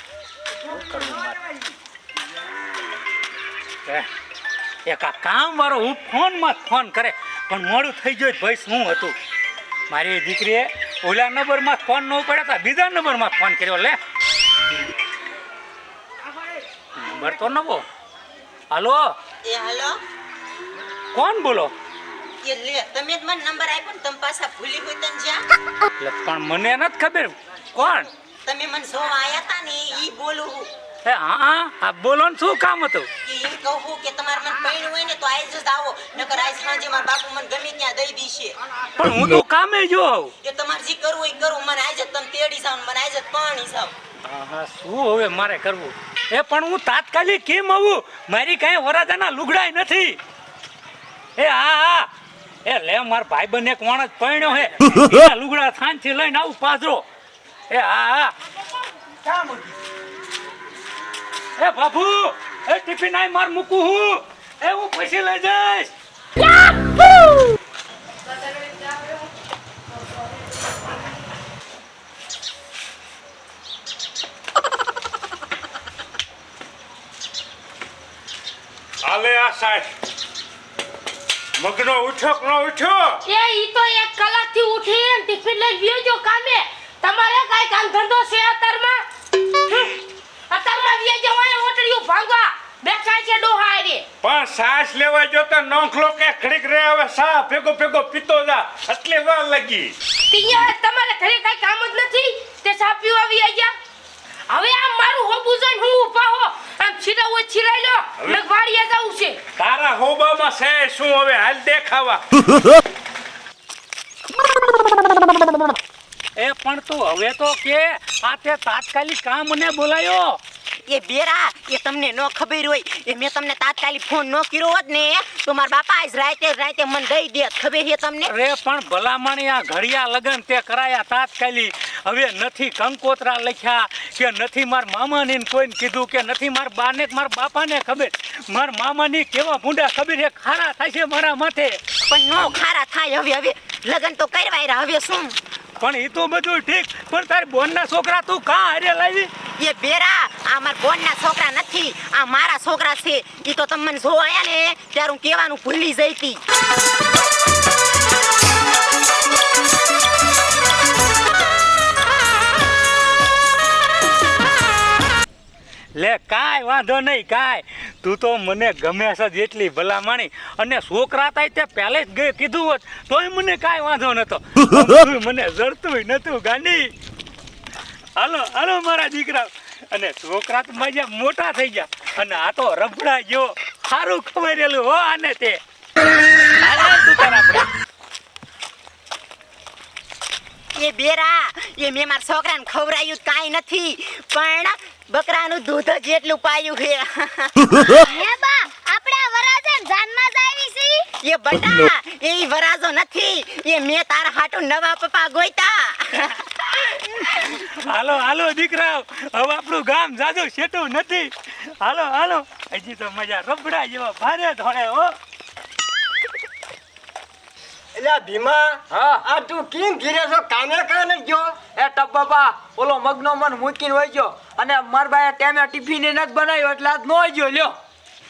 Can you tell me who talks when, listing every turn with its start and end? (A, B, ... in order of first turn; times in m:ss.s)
0:00.6-0:01.4 A
0:04.8-0:09.1 A
0:09.9-0:14.0 A
0:16.9-0:17.8 A
0:18.7-0:19.1 A
0:19.4-0:20.0 B
0:21.1-0:21.7 A
0:22.4-0:25.4 B
0:26.0-0:28.1 A
0:28.4-0:30.7 B
0:31.0-0:33.1 A
0:33.2-0:38.6 B
0:39.0-0:40.3 A
0:40.4-0:43.9 B
0:44.2-0:50.2 A
0:51.4-0:52.1 A
0:52.6-0:57.0 A
0:57.7-0:58.3 A
0:59.2-0:59.7 C
1:01.6-1:05.9 A
1:19.0-1:19.8 D
1:21.6-1:23.2 D
1:23.2-1:29.0 E
1:29.6-1:34.0 E
1:34.2-1:39.9 D
1:40.3-1:43.7 E
1:44.5-1:49.4 E
1:49.6-1:52.2 D
1:56.4-2:00.4 A
2:00.8-2:08.3 B
2:08.2-2:21.8 A
2:22.0-2:25.4 B
2:25.8-2:29.3 A
2:29.6-2:36.4 B
2:45.9-2:56.9 A
2:58.2-3:05.6 A
3:06.6-3:07.7 A
3:10.7-3:18.1 B
3:18.2-3:21.0 F
3:20.4-3:26.4 B
3:27.2-3:31.3 A
3:31.8-3:35.1 A
3:37.9-3:41.7 G
3:41.7-3:47.8 C